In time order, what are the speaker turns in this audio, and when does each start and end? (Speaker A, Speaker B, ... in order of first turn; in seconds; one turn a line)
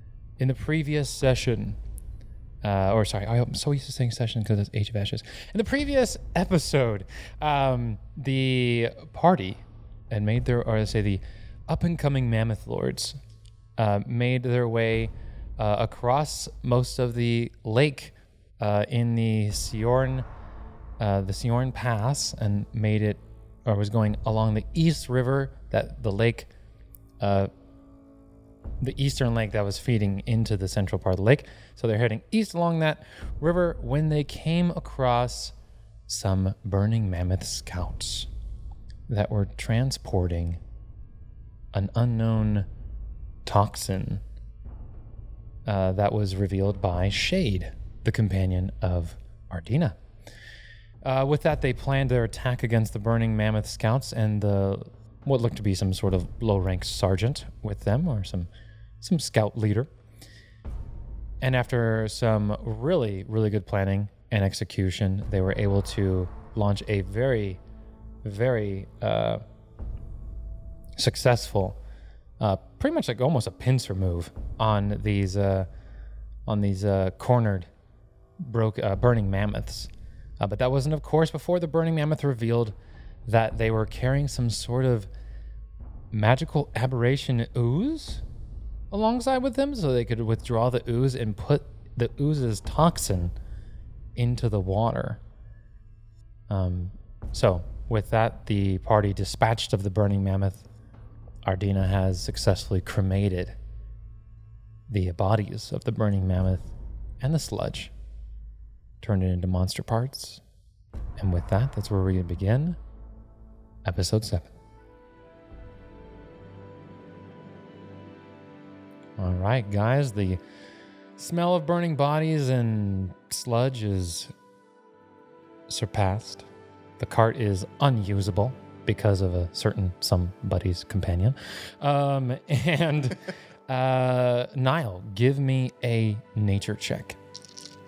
Speaker A: 0.4-1.8
Speaker A: 2.6-13.2
Speaker A: 13.8-20.2
Speaker A: 21.0-26.5
Speaker A: 27.2-27.5
Speaker A: 28.8-35.5
Speaker A: 36.1-38.3
Speaker A: 39.1-40.6
Speaker A: 41.7-42.7
Speaker A: 43.5-44.2
Speaker A: 45.6-50.0
Speaker A: 51.0-58.5
Speaker A: 59.0-59.9
Speaker A: 61.4-67.6
Speaker A: 68.2-69.4
Speaker A: 71.0-71.8
Speaker A: 72.4-75.7
Speaker A: 76.5-77.7
Speaker A: 78.4-82.8
Speaker A: 83.3-85.1
Speaker A: 86.1-88.2
Speaker A: 88.9-93.3
Speaker A: 94.2-95.2
Speaker A: 96.5-100.6
Speaker A: 101.4-103.6
Speaker A: 104.9-107.9
Speaker A: 109.0-110.4
Speaker A: 111.2-112.8
Speaker A: 113.8-114.5
Speaker A: 119.2-120.4
Speaker A: 121.2-124.3
Speaker A: 125.7-126.5
Speaker A: 127.0-137.2